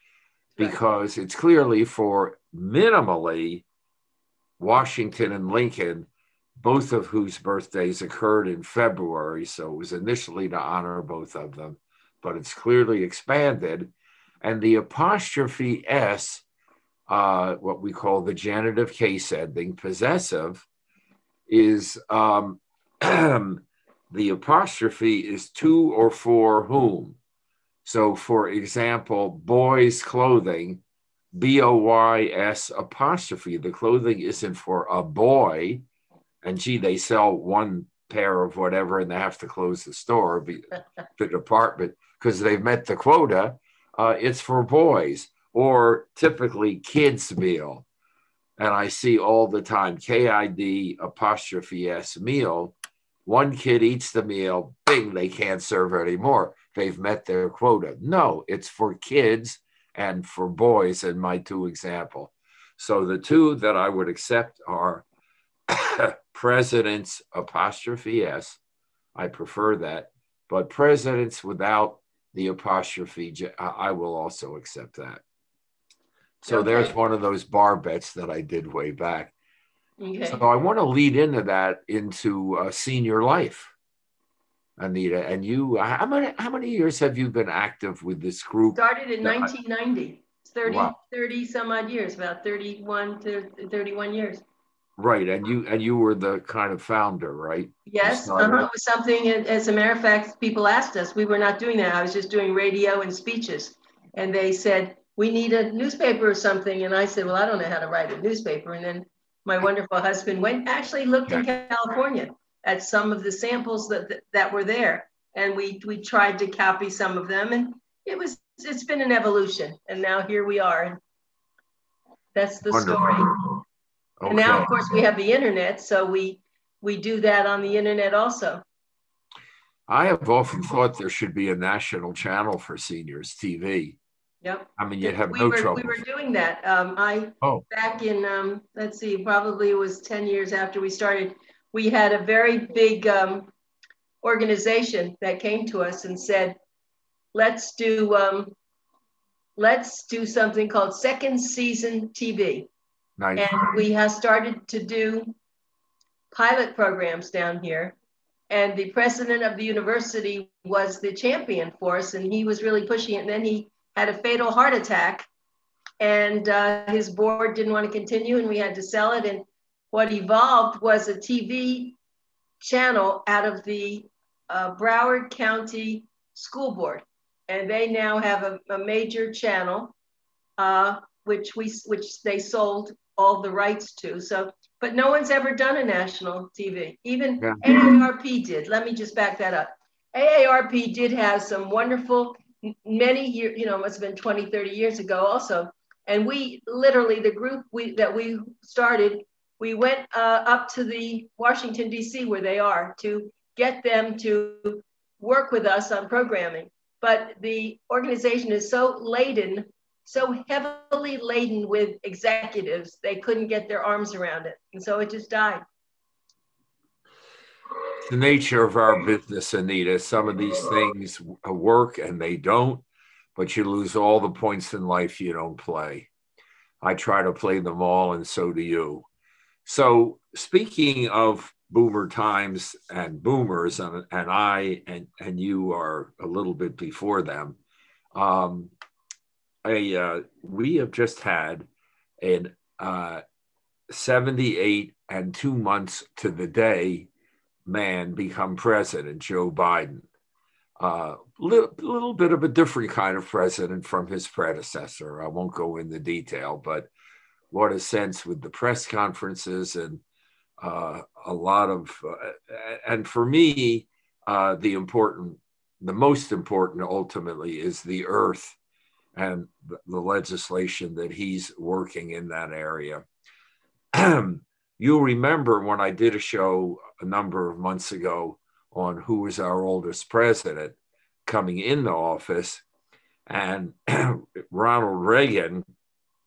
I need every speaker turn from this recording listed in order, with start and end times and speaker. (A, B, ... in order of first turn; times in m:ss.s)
0:00.6-0:03.6 A
0:04.6-0:16.4 A
0:17.1-0:20.7 A
0:21.5-0:27.2 A
0:27.8-0:30.8 A
0:31.3-0:35.8 A
0:36.4-0:47.9 A
0:48.6-0:52.8 A
0:53.3-1:05.0 A
1:05.7-1:08.6 A
1:09.2-1:15.2 A
1:16.4-1:19.3 A
1:16.5-1:17.0 B
1:20.0-1:20.4 B
1:20.3-1:23.7 A
1:24.8-1:29.5 A
1:28.8-1:34.4 B
1:30.6-1:31.0 A
1:35.0-1:38.7 A
1:37.9-2:01.0 B
2:02.4-2:03.3 B
2:02.7-2:03.4 A
2:04.2-2:04.7 A
2:04.3-2:08.6 B
2:09.9-2:14.0 A
2:14.4-2:23.5 B
2:14.8-2:16.0 A
2:24.2-2:26.6 B
2:27.3-2:28.5 B
2:29.6-2:32.7 B
2:33.2-2:33.8 A
2:33.4-2:35.3 B
2:36.3-2:38.0 B
2:38.5-2:45.3 B
2:46.0-2:52.0 B
2:52.6-2:59.9 B
3:00.6-3:35.6 B
3:07.4-3:08.0 A
3:38.0-3:42.8 A
3:43.4-3:46.1 A
3:46.8-3:49.1 A
3:49.6-3:57.6 A
3:58.1-3:58.7 A
3:59.6-4:01.7 A
4:02.2-4:03.2 A
4:03.9-4:07.1 A
4:07.7-4:10.1 A
4:10.8-4:16.9 A
4:17.5-4:20.0 A
4:20.6-4:28.6 A
4:29.2-4:33.0 A
4:33.9-4:42.6 A
4:43.3-4:45.6 A